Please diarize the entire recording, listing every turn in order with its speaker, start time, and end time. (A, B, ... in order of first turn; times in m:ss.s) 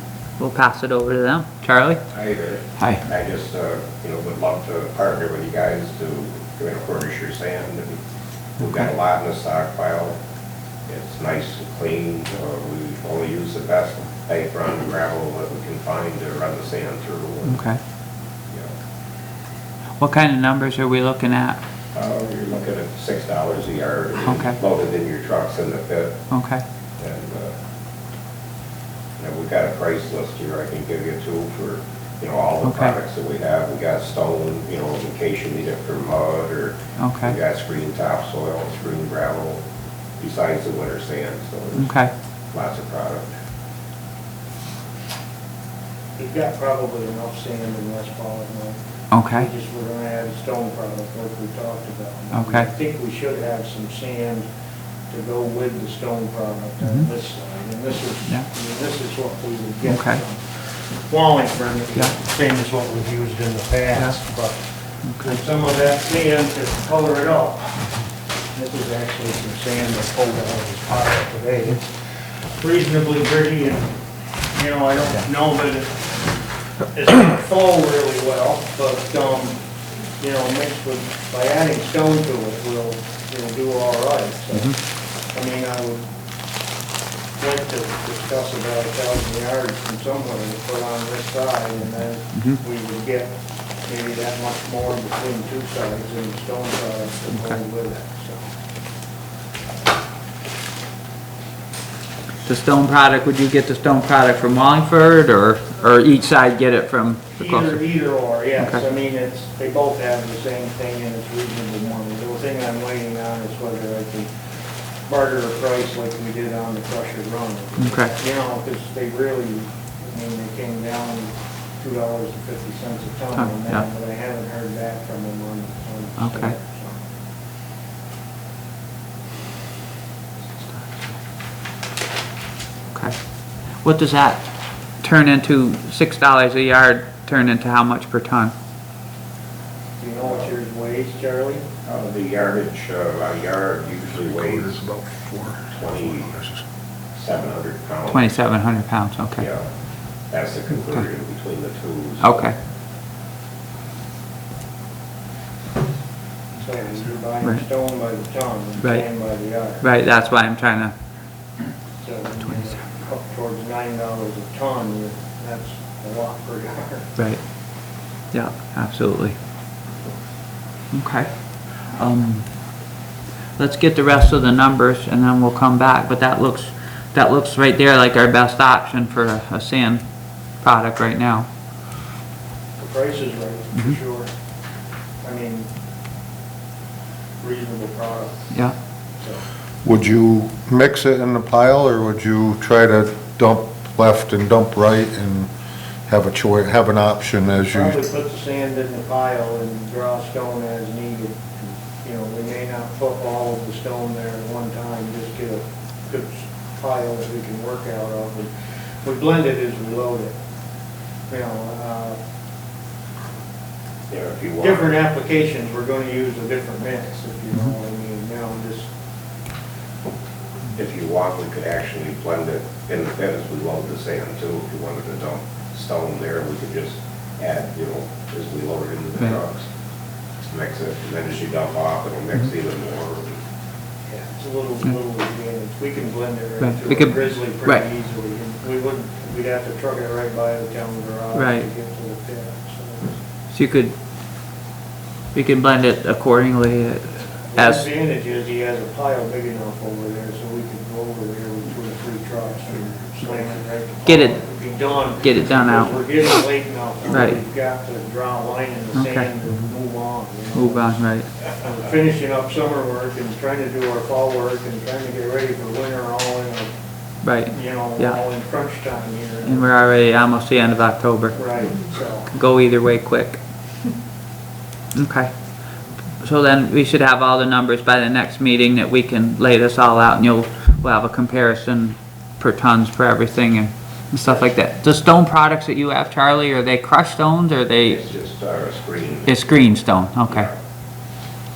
0:00.4-0:02.0 A
0:02.1-0:08.0 B
0:02.8-0:03.0 A
0:08.6-0:10.2 B
0:10.9-0:17.6 B
0:17.5-0:17.8 A
0:20.0-0:21.6 A
0:21.9-0:26.2 B
0:24.2-0:24.6 A
0:26.3-0:26.6 A
0:27.0-0:27.5 B
0:29.2-0:39.6 B
0:32.6-0:33.0 A
0:37.0-0:37.4 A
0:40.2-0:42.0 B
0:41.8-0:42.1 A
0:42.5-0:43.3 B
0:46.2-0:54.5 C
0:49.1-0:49.5 A
0:52.3-0:52.7 A
0:55.1-1:04.6 C
0:59.9-1:00.2 A
1:05.0-1:05.4 A
1:05.2-1:07.8 C
1:08.5-1:14.0 C
1:14.5-1:16.1 C
1:16.9-1:19.6 C
1:20.2-1:24.8 C
1:25.3-1:26.0 C
1:27.4-1:38.5 C
1:42.5-1:47.8 A
1:47.4-1:54.3 C
1:55.1-2:07.1 C
1:57.8-1:58.2 A
2:03.4-2:03.8 A
2:06.2-2:06.6 A
2:13.8-2:14.5 A
2:15.0-2:18.5 A
2:20.0-2:21.6 C
2:21.8-2:24.9 B
2:24.4-2:25.7 D
2:25.7-2:26.4 B
2:27.2-2:28.4 B
2:28.1-2:29.5 A
2:29.4-2:29.7 B
2:30.3-2:32.4 B
2:32.2-2:32.6 A
2:36.6-2:39.9 C
2:39.8-2:40.9 A
2:42.0-2:47.1 C
2:47.2-2:47.4 A
2:48.3-2:49.4 A
2:50.9-2:52.5 A
2:53.6-3:00.0 A
3:00.6-3:01.5 A
3:02.8-3:04.3 C
3:05.2-3:05.7 C
3:07.4-3:08.6 C
3:09.8-3:15.5 D
3:16.1-3:18.0 D
3:17.7-3:30.4 C
3:31.3-3:32.2 C
3:34.1-3:34.9 B
3:34.6-3:38.9 C
3:40.8-3:49.7 B
3:50.4-3:53.4 B
3:54.1-4:03.2 C
3:56.6-3:57.8 A
4:01.4-4:01.7 A
4:03.5-4:03.9 A
4:05.3-4:07.9 A
4:07.5-4:21.0 C
4:14.1-4:14.4 A
4:15.2-4:16.0 A
4:17.1-4:17.4 A
4:19.0-4:19.3 A
4:20.5-4:21.3 A
4:21.5-4:26.7 C
4:27.2-4:28.2 A
4:27.5-4:29.7 C
4:29.4-4:31.4 A
4:31.4-4:32.3 C
4:32.3-4:33.4 A
4:35.0-4:35.3 A
4:36.2-4:48.0 A
4:47.9-4:50.6 B
4:49.3-4:50.5 A